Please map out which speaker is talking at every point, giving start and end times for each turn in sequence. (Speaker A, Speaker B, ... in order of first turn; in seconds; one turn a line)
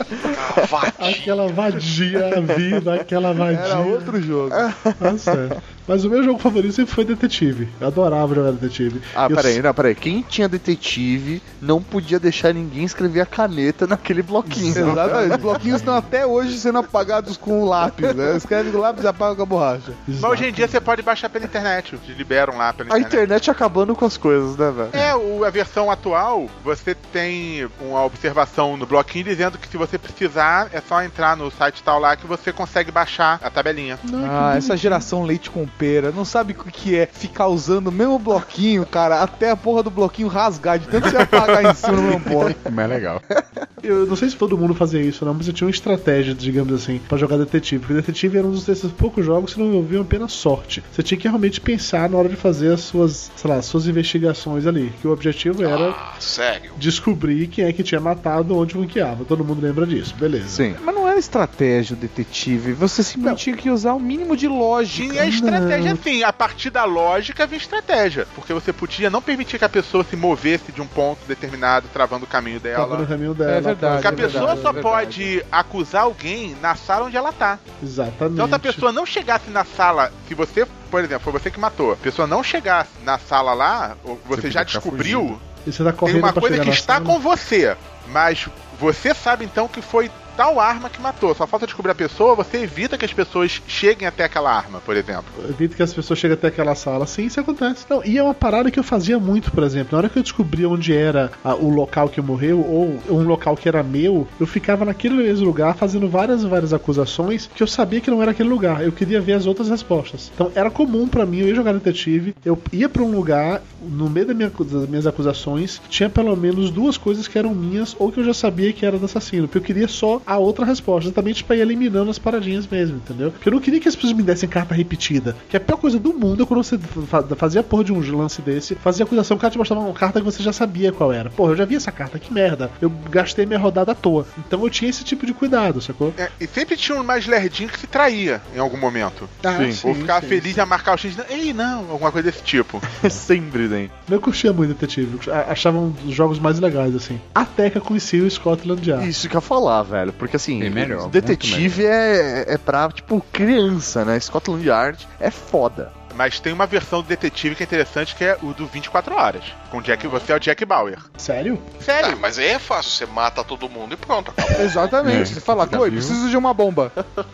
Speaker A: 0.3-1.5
Speaker B: 1.0-4.2
Speaker C: 3.5-4.6
Speaker D: 4.5-5.4
Speaker B: 5.0-9.6
Speaker D: 9.1-15.6
Speaker B: 14.4-16.1
Speaker C: 14.7-20.0
Speaker B: 20.1-20.9
Speaker E: 20.2-23.2
Speaker D: 22.9-24.9
Speaker E: 24.9-34.0
Speaker B: 34.0-35.0
Speaker C: 34.2-42.6
Speaker F: 42.6-43.2
Speaker B: 43.8-56.0
Speaker A: 55.6-56.8
Speaker B: 56.8-60.6
Speaker D: 60.5-60.8
Speaker C: 60.8-65.3
Speaker E: 64.9-73.1
Speaker B: 65.2-66.0
Speaker B: 72.7-74.9
Speaker C: 73.5-75.3
Speaker E: 74.0-77.6
Speaker B: 77.8-78.8
Speaker E: 78.3-85.4
Speaker F: 84.3-85.3
Speaker B: 85.7-87.2
Speaker E: 86.0-95.3
Speaker B: 95.4-136.2
Speaker E: 136.2-142.8
Speaker B: 139.4-140.6
Speaker D: 139.5-139.8
Speaker D: 142.9-143.9
Speaker B: 144.1-149.1
Speaker D: 148.9-155.9
Speaker F: 150.6-151.8
Speaker E: 156.1-161.1
Speaker B: 161.2-161.7
Speaker E: 161.8-162.2
Speaker A: 162.0-164.9
Speaker C: 164.6-166.9
Speaker F: 165.0-166.2